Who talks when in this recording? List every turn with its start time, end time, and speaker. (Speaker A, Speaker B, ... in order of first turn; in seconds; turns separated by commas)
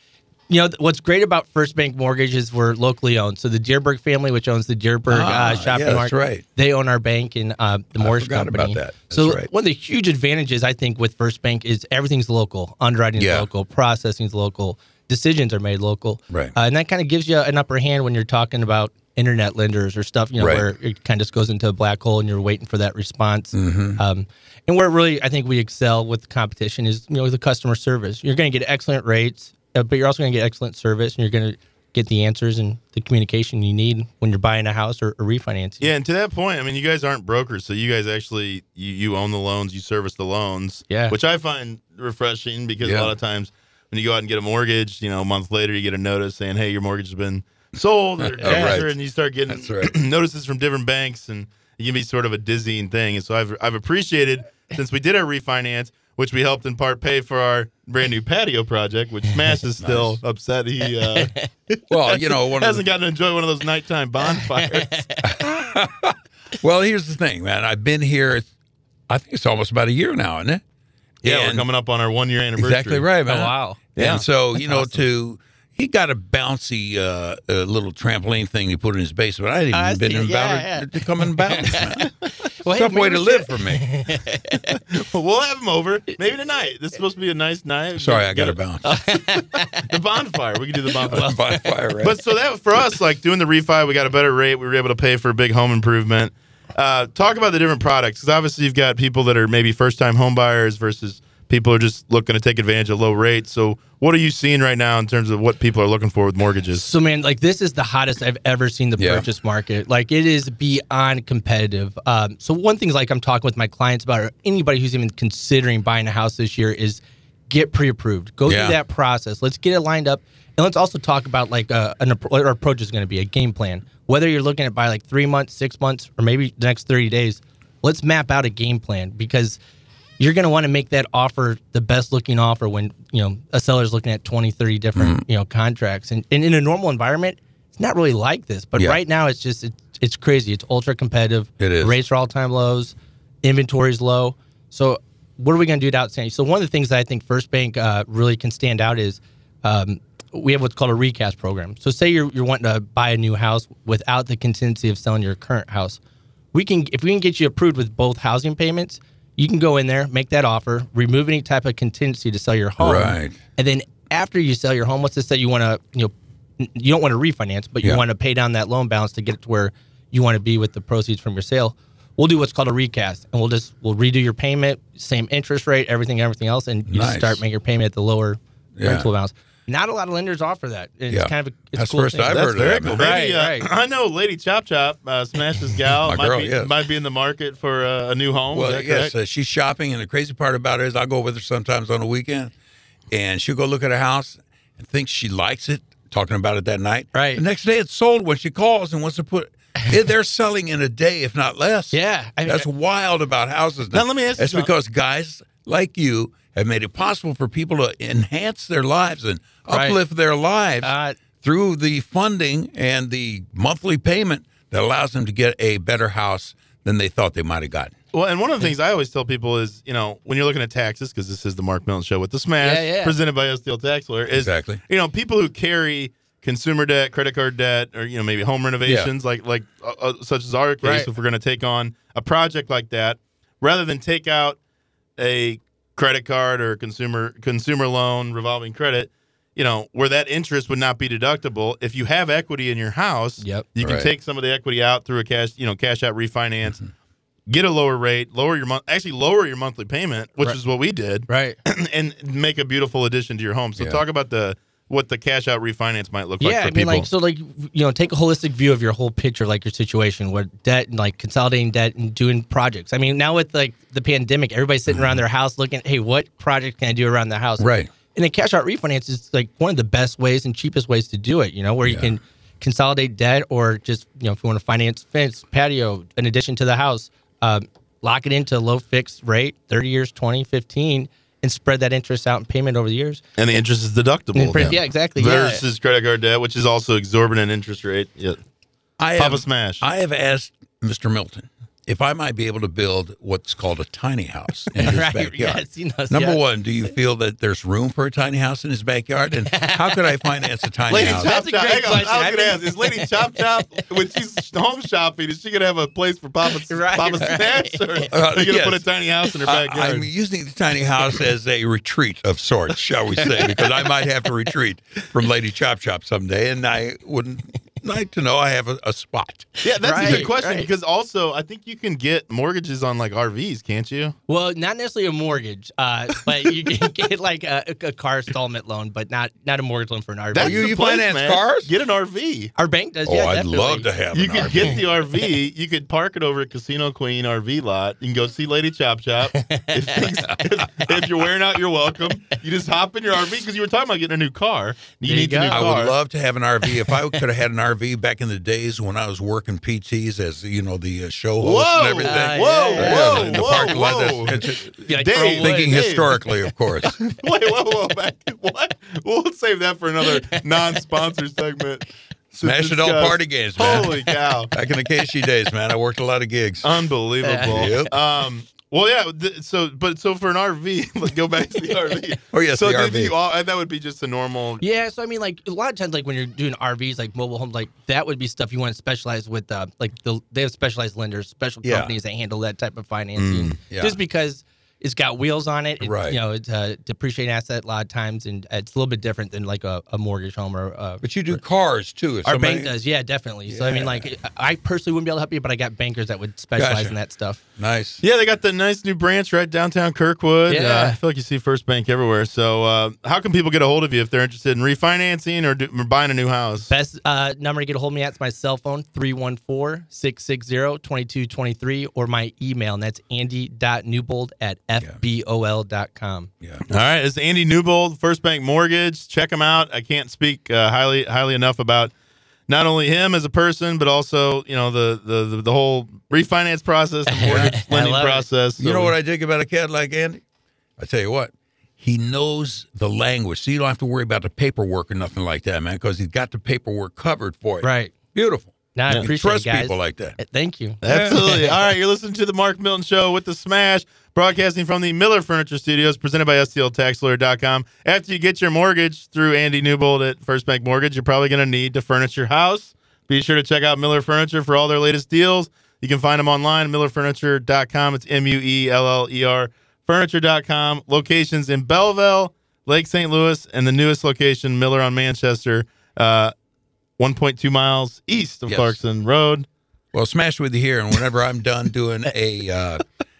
Speaker A: 0.5-35.9, Speaker B: 5.1-6.4, Speaker B: 8.0-9.5, Speaker B: 13.2-13.5, Speaker B: 20.4-20.7, Speaker B: 23.5-24.0, Speaker C: 35.8-61.3, Speaker A: 40.9-41.2, Speaker B: 42.8-43.1, Speaker B: 48.2-48.9, Speaker A: 48.4-48.8, Speaker B: 49.5-50.0, Speaker B: 59.8-60.2, Speaker A: 61.0-61.5, Speaker B: 61.9-62.9, Speaker C: 62.1-65.0, Speaker A: 64.3-65.3, Speaker B: 65.2-68.5, Speaker B: 69.1-70.6, Speaker B: 71.2-71.7, Speaker C: 71.2-73.1, Speaker B: 72.6-84.0, Speaker A: 73.2-75.0, Speaker C: 74.0-74.2, Speaker A: 79.7-84.8, Speaker C: 84.9-88.6, Speaker B: 88.0-88.9, Speaker A: 88.8-89.8, Speaker C: 89.8-91.3, Speaker A: 91.0-91.7, Speaker B: 91.1-92.2, Speaker C: 92.0-106.9, Speaker A: 106.7-129.6, Speaker B: 109.0-109.2, Speaker B: 118.4-118.8, Speaker A: 130.2-156.0, Speaker B: 134.9-135.2, Speaker B: 141.6-142.0, Speaker A: 156.5-183.7, Speaker B: 162.8-163.4, Speaker B: 176.9-177.4, Speaker B: 178.8-179.1, Speaker B: 181.1-183.1, Speaker C: 182.3-189.1, Speaker B: 186.0-186.7, Speaker B: 188.5-192.5, Speaker B: 193.1-217.9, Speaker A: 197.1-197.4, Speaker A: 201.9-202.7, Speaker C: 203.9-204.7, Speaker A: 209.7-210.0, Speaker A: 210.8-211.2, Speaker C: 218.1-234.6, Speaker A: 222.6-223.2, Speaker B: 224.3-224.8, Speaker B: 228.8-229.1, Speaker A: 230.8-231.1, Speaker C: 235.2-246.8, Speaker A: 243.4-243.7, Speaker B: 243.8-244.1, Speaker C: 247.5-257.1, Speaker A: 251.3-251.6, Speaker A: 256.4-283.2, Speaker B: 264.9-265.2, Speaker B: 267.6-267.9, Speaker B: 271.8-272.1, Speaker C: 283.4-288.4, Speaker A: 284.3-285.6, Speaker B: 289.0-301.4, Speaker C: 289.2-289.8, Speaker A: 294.7-296.4, Speaker A: 299.4-300.4, Speaker C: 300.9-310.1, Speaker A: 300.9-303.8, Speaker A: 306.6-308.1, Speaker B: 308.1-320.3, Speaker A: 313.1-313.9, Speaker C: 319.6-324.1, Speaker A: 319.8-320.7, Speaker A: 324.3-330.6, Speaker C: 330.3-332.5, Speaker B: 330.3-331.7, Speaker A: 332.6-333.9, Speaker B: 333.0-334.8, Speaker C: 334.1-345.9, Speaker A: 339.2-340.1, Speaker A: 345.0-345.7, Speaker B: 345.5-354.7, Speaker C: 351.4-356.2, Speaker A: 352.0-353.4, Speaker A: 354.7-355.8, Speaker B: 355.4-356.9, Speaker C: 356.8-364.5, Speaker B: 362.4-366.7, Speaker C: 366.6-374.6, Speaker A: 367.2-367.9, Speaker B: 367.5-367.9, Speaker B: 372.3-373.1, Speaker A: 374.6-391.4, Speaker B: 381.6-381.9, Speaker C: 383.1-383.6, Speaker B: 383.7-384.0, Speaker B: 385.8-386.2, Speaker B: 391.0-392.7, Speaker A: 392.2-397.4, Speaker B: 393.4-394.1, Speaker B: 396.6-397.0, Speaker B: 397.6-398.0, Speaker C: 398.0-406.7, Speaker A: 400.5-401.0, Speaker A: 406.7-416.3, Speaker C: 416.7-421.9, Speaker C: 422.5-428.9, Speaker A: 427.1-428.3, Speaker B: 427.2-427.5, Speaker B: 428.6-430.2, Speaker B: 430.8-440.2, Speaker A: 437.6-437.9, Speaker A: 438.7-441.4, Speaker C: 440.8-466.3, Speaker B: 440.8-441.2, Speaker C: 467.0-469.4, Speaker B: 468.4-468.8, Speaker B: 469.9-472.8